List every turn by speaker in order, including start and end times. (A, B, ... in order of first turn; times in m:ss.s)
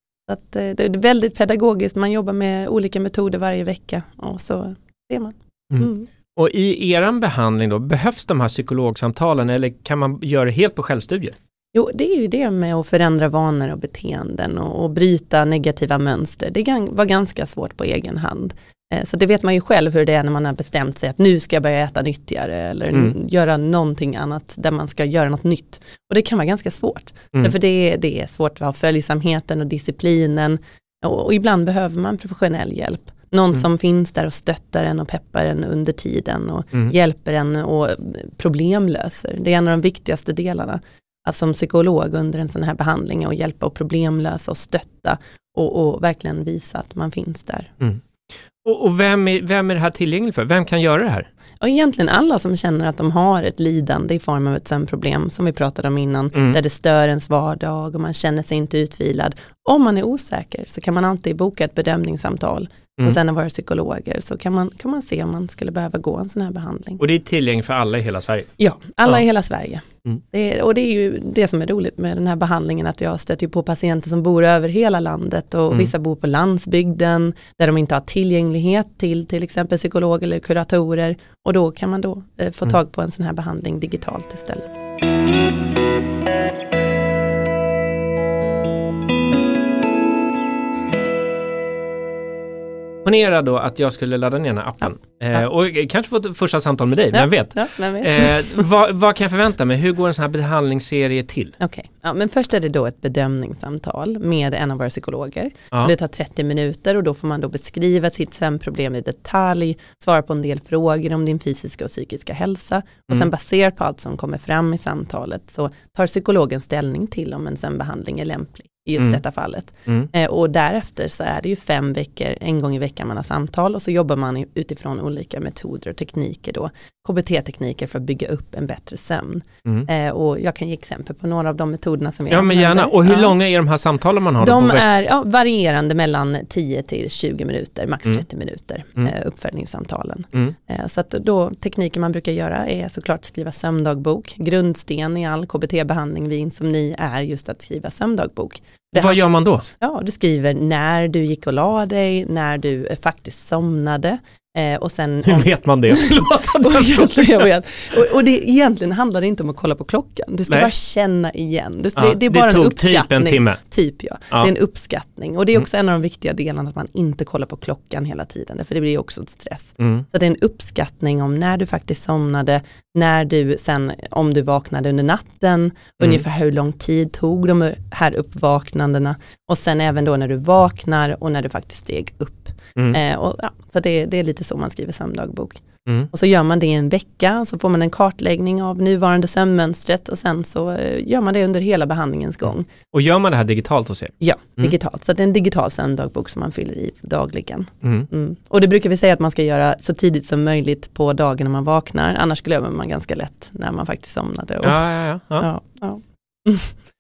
0:00.3-0:06.1 A
0:05.7-0:11.3 B
0:11.7-0:47.7 A
0:48.6-0:51.3 B
0:51.6-1:07.0 A
0:56.3-0:56.6 B
1:07.0-1:08.5 B
1:08.6-1:24.8 A
1:33.0-1:41.5 B
1:37.1-1:38.6 A
1:41.6-2:13.4 A
1:59.8-2:00.1 B
2:12.3-2:14.8 B
2:14.4-3:12.7 A
2:28.9-2:29.6 B
2:35.2-2:37.5 B
2:42.0-2:43.6 B
2:49.8-2:50.1 B
2:56.0-2:56.2 B
3:12.9-3:14.7 B
3:14.2-3:24.8 A
3:17.8-3:18.1 B
3:24.6-3:25.5 B
3:25.4-3:26.7 A